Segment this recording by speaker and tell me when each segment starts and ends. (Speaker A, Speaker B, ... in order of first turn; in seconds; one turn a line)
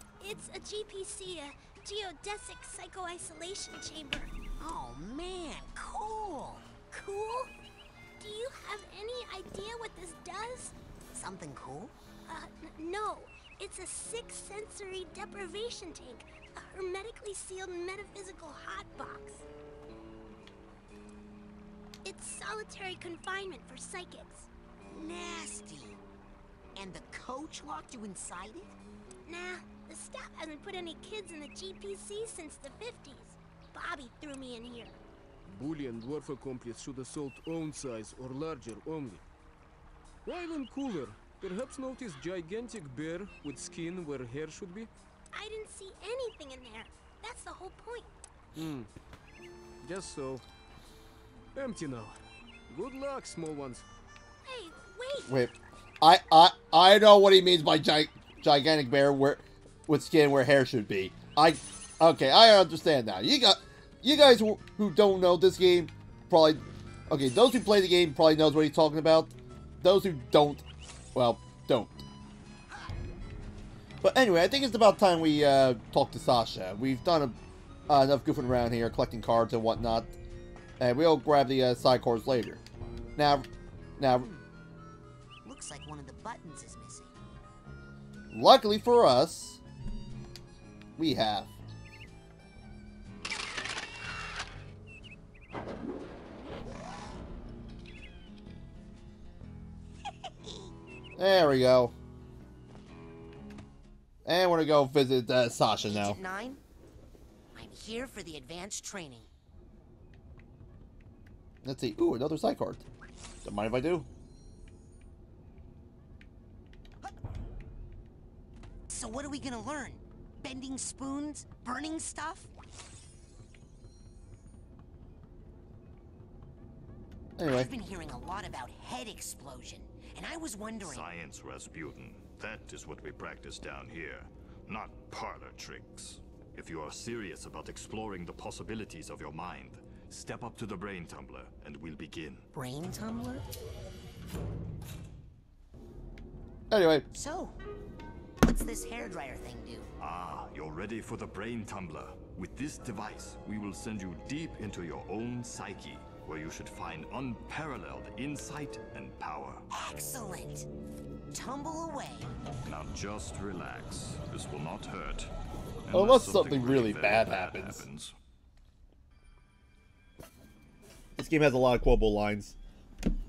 Speaker A: 0.2-4.3
Speaker B: 4.6-6.7
Speaker A: 6.9-7.5
Speaker A: 8.2-10.7
Speaker B: 11.1-11.9
Speaker A: 12.3-19.4
Speaker A: 22.0-24.5
Speaker B: 24.9-26.0
Speaker B: 26.7-28.7
Speaker A: 29.2-35.0
Speaker C: 35.5-39.2
Speaker C: 40.2-44.9
Speaker A: 45.3-48.1
Speaker C: 48.5-48.9
Speaker C: 49.8-50.4
Speaker C: 51.5-52.1
Speaker C: 52.7-53.8
Speaker A: 54.4-55.3
Speaker D: 55.2-72.0
Speaker D: 74.0-77.4
Speaker D: 77.9-80.2
Speaker D: 80.8-82.6
Speaker D: 83.2-84.3
Speaker B: 84.1-84.5
Speaker B: 85.4-87.1
Speaker D: 88.3-89.6
Speaker D: 91.0-91.5
Speaker D: 101.2-101.9
Speaker D: 104.2-106.2
Speaker B: 105.8-106.6
Speaker B: 107.5-109.3
Speaker D: 111.6-112.8
Speaker D: 113.4-114.1
Speaker B: 118.9-122.5
Speaker D: 127.4-127.7
Speaker B: 127.5-131.1
Speaker E: 130.8-142.4
Speaker B: 142.5-143.5
Speaker D: 146.7-147.1
Speaker B: 147.1-147.5
Speaker B: 148.4-149.9
Speaker E: 150.0-159.6
Speaker B: 159.7-160.7
Speaker B: 161.3-162.3
Speaker E: 162.6-165.3
Speaker E: 165.8-168.1
Speaker D: 165.9-167.8
Speaker D: 171.2-172.6